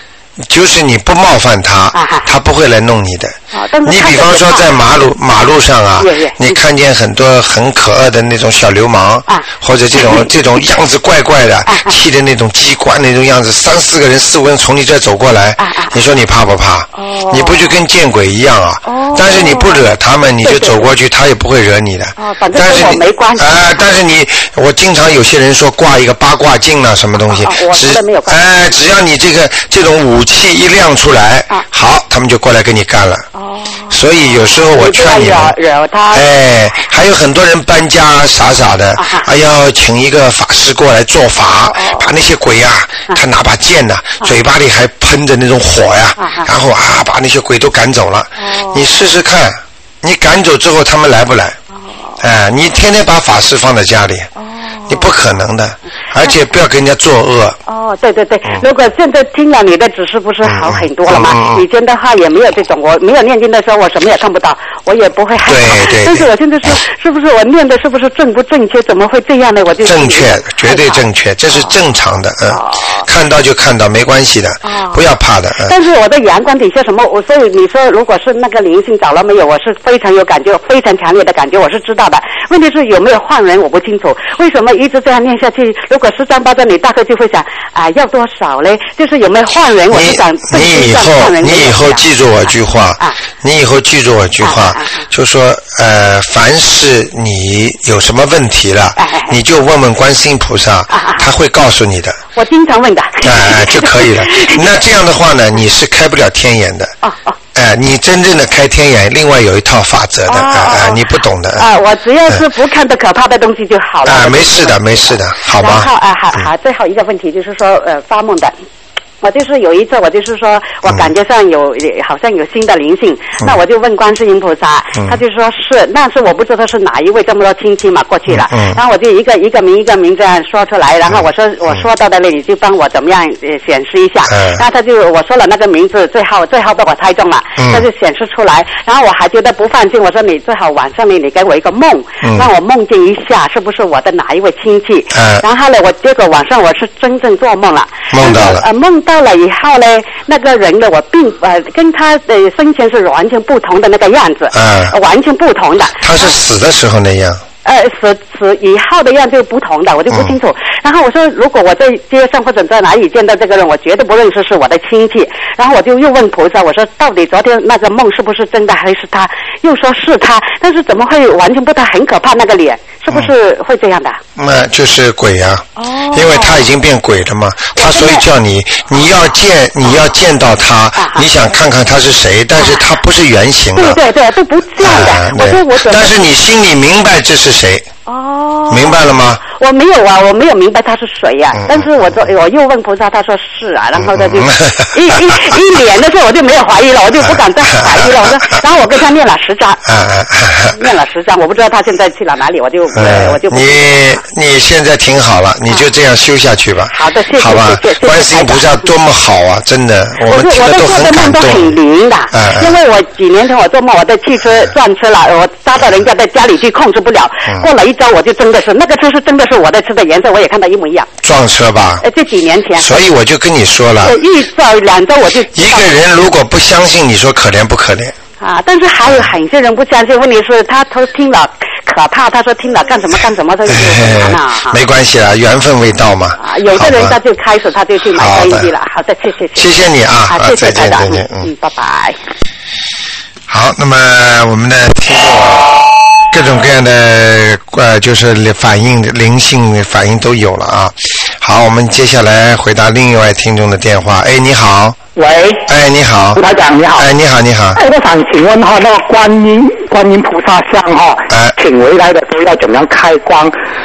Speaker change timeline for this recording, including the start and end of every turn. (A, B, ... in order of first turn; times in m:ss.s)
0:00.4-0:33.3 A
0:01.9-0:02.3 B
0:03.5-0:05.1 B
0:06.0-0:06.6 B
0:09.3-0:10.3 B
0:11.7-0:11.9 B
0:15.6-0:15.9 B
0:16.9-0:17.7 B
0:18.8-0:19.8 B
0:20.4-0:20.9 B
0:22.2-0:23.7 B
0:27.2-0:28.4 B
0:33.3-0:36.2 B
0:33.9-0:35.5 A
0:36.1-0:51.6 A
0:39.0-0:39.3 B
0:41.4-0:42.1 B
0:46.2-0:46.5 B
0:48.4-0:48.9 B
0:51.7-0:52.2 B
0:52.2-0:54.3 A
0:54.4-0:55.1 B
0:54.9-0:57.6 A
0:57.7-1:11.8 B
1:00.4-1:01.6 A
1:05.4-1:06.7 A
1:09.8-1:15.7 A
1:12.5-1:13.1 B
1:14.6-1:15.0 B
1:15.6-1:33.2 B
1:29.9-1:42.2 A
1:34.4-1:35.0 B
1:39.0-1:39.4 B
1:40.9-1:41.3 B
1:42.3-1:44.7 B
1:43.2-1:46.9 A
1:47.0-1:47.4 B
1:47.5-1:51.7 A
1:50.3-1:58.6 B
1:54.0-1:56.4 A
1:59.2-2:36.3 B
2:08.3-2:08.8 A
2:14.3-2:14.6 A
2:17.6-2:17.8 A
2:22.2-2:22.5 A
2:25.1-2:25.4 A
2:28.1-2:28.6 A
2:34.5-2:34.9 A
2:36.0-2:37.4 A
2:37.6-2:54.2 B
2:54.4-3:04.0 A
2:55.8-2:56.7 B
2:57.7-2:58.2 B
2:58.9-3:00.1 B
3:01.0-3:01.2 B
3:02.6-3:03.0 B
3:03.7-3:06.2 B
3:04.8-3:07.9 A
3:08.0-3:19.8 B
3:08.7-3:09.4 A
3:11.5-3:12.0 A
3:13.9-3:15.6 A
3:17.2-3:18.2 A
3:19.8-3:20.8 A
3:20.7-3:24.2 B
3:22.9-3:31.8 A
3:26.9-3:28.9 B
3:30.2-3:41.1 B
3:32.3-3:32.7 A
3:41.2-3:42.0 A
3:42.0-3:43.0 B
3:42.8-3:44.2 A
3:44.0-3:45.9 B
3:45.5-3:48.2 A
3:48.4-3:54.8 B
3:53.7-3:57.2 A
3:56.4-3:59.7 B
3:58.1-3:58.7 A
3:59.5-4:01.5 A
4:00.3-4:02.2 B
4:03.5-4:15.0 A
4:15.2-4:15.7 C
4:15.6-4:16.4 A
4:16.3-4:17.1 C
4:16.9-4:17.8 A
4:17.7-4:23.5 C
4:21.3-4:21.6 A